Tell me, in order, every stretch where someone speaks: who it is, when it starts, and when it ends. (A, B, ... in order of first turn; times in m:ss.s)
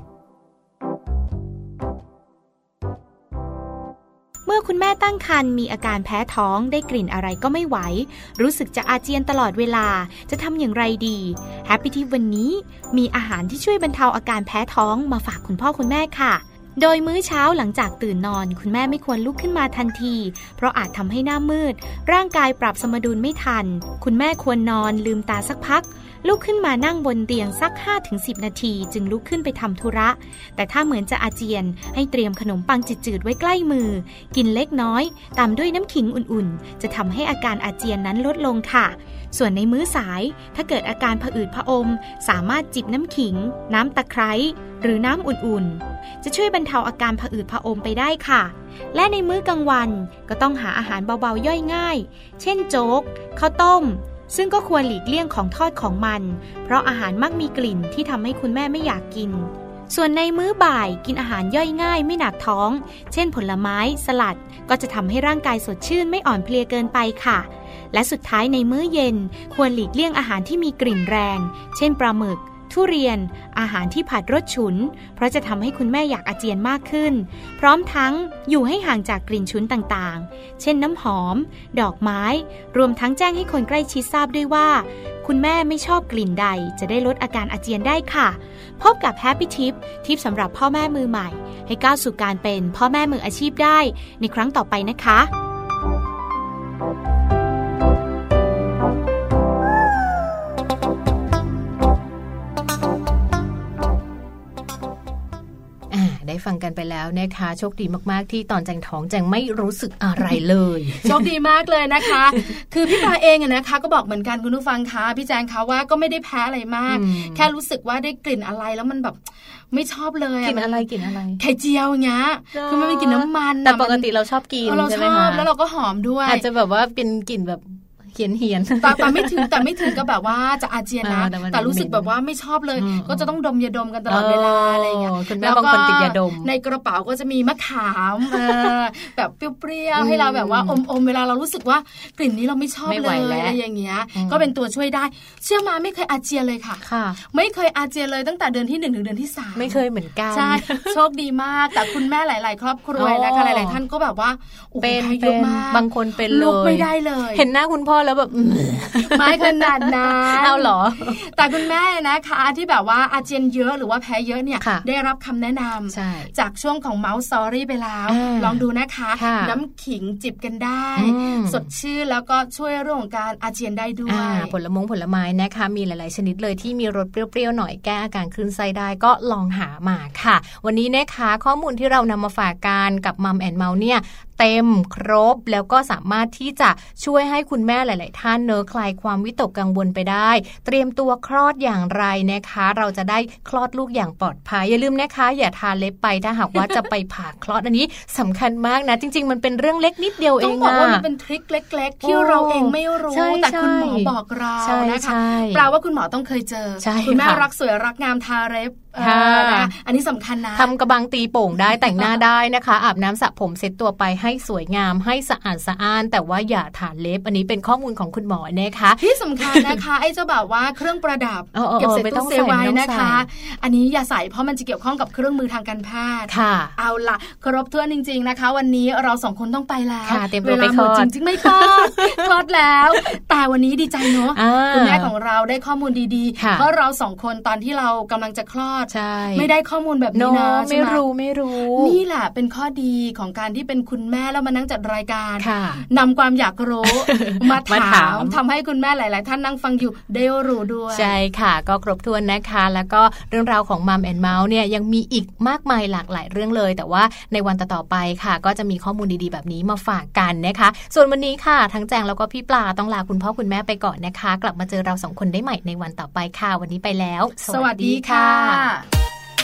0:04.5-1:35.3 A
1:45.9-1:51.2 B
1:51.0-2:00.9 C
1:52.0-1:53.0 B
1:56.9-1:57.5 B
2:00.4-2:01.4 B
2:01.4-2:04.1 C
2:02.5-2:05.5 B
2:04.6-2:06.4 C
2:06.3-2:10.0 B
2:08.8-2:37.5 C
2:11.0-2:12.1 B
2:12.8-2:13.4 B
2:14.1-2:16.5 B
2:18.3-2:18.7 B
2:20.0-2:20.8 B
2:22.8-2:23.6 B
2:24.1-2:24.5 B
2:26.8-2:27.2 B
2:29.6-2:31.0 B
2:33.0-2:33.8 B
2:34.8-2:41.7 B
2:39.1-2:54.5 C
2:44.6-2:44.9 B
2:45.9-2:46.3 B
2:48.1-2:49.6 B
2:51.0-2:51.7 B
2:54.1-3:21.1 B
3:20.4-3:30.7 C
3:22.0-3:25.7 B
3:26.8-3:27.5 B
3:29.0-3:29.7 B
3:30.6-3:39.8 B
3:39.0-4:01.0 C
3:41.5-3:43.3 B
3:46.3-3:46.8 B
3:50.0-3:52.3 B
3:54.0-3:55.1 B
3:56.4-3:56.7 B
3:58.9-3:59.5 B
4:00.1-4:02.0 B
4:01.8-4:11.2 C
4:05.4-4:05.8 B
4:06.8-4:08.4 B
4:10.9-4:28.7 B
4:27.5-4:28.9 C